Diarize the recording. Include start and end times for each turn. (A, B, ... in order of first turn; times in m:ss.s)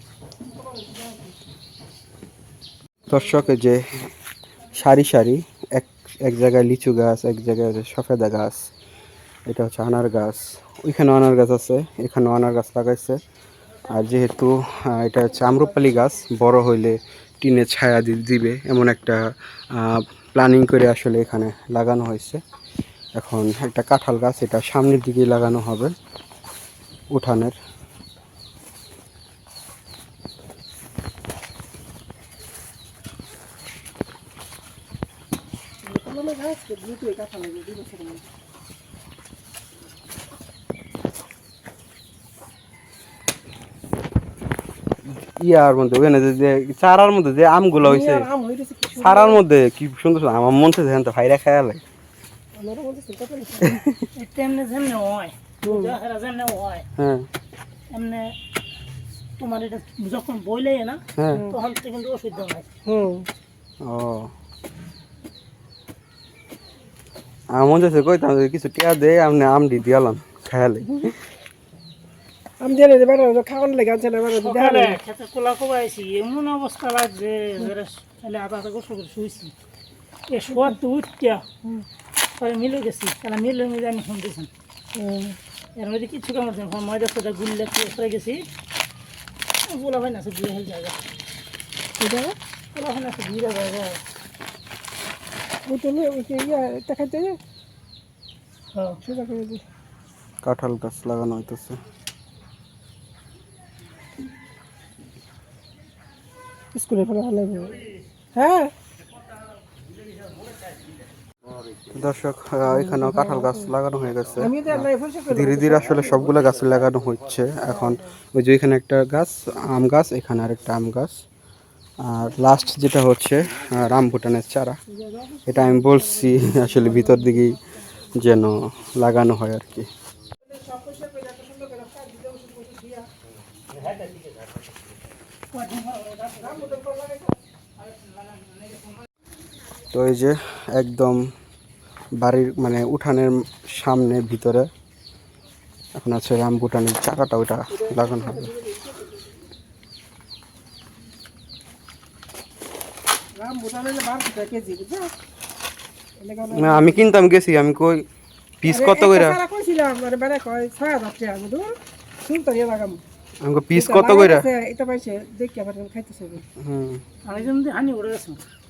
0:00.5-0:01.4 A
0:03.1-0:03.8 B
0:04.7-0:08.6 B
0:09.5-0:13.2 B
0:13.9-0:19.2 B
0:19.7-0:22.4 B
0:23.2-0:25.9 B
0:27.1-0:27.5 B
0:35.8-0:38.3 A
0:45.4-0:48.3 B
0:47.8-0:49.4 A
0:49.0-0:51.8 B
0:52.5-0:53.8 A
0:53.6-0:54.0 B
0:54.2-0:56.8 C
0:55.6-0:55.9 A
0:57.0-0:57.3 B
0:57.9-0:58.3 C
0:59.4-1:02.7 C
1:01.2-1:01.4 B
1:01.3-1:01.6 A
1:02.8-1:03.3 A
1:03.8-1:04.3 B
1:07.5-1:11.1 B
1:12.6-1:15.0 A
1:14.3-1:19.5 C
1:20.3-1:21.4 C
1:22.4-1:24.5 C
1:24.9-1:25.4 A
1:25.8-1:28.4 C
1:29.6-1:31.0 C
1:32.0-1:32.3 A
1:32.7-1:34.0 C
1:35.7-1:37.4 A
1:38.7-1:39.0 C
1:39.0-1:39.6 A
1:40.4-1:41.8 B
1:46.7-1:47.8 A
1:48.3-1:48.7 A
1:51.9-2:01.2 B
1:52.7-1:53.7 A
1:54.4-1:56.3 A
1:57.7-1:58.1 A
2:02.0-2:04.8 B
2:04.9-2:07.6 A
2:05.5-2:07.6 B
2:08.1-2:09.9 B
2:10.4-2:13.1 A
2:15.5-2:16.8 C
2:16.4-2:17.4 A
2:17.8-2:19.0 C
2:19.9-2:21.3 B
2:22.1-2:24.7 B
2:26.0-2:28.5 B
2:27.7-2:29.3 A
2:33.4-2:35.1 A
2:36.2-2:37.0 A
2:36.5-2:38.0 B
2:38.6-2:39.4 B
2:38.6-2:43.0 A
2:43.4-2:44.5 B
2:43.7-2:46.4 A
2:46.6-2:47.0 B
2:47.2-2:48.4 C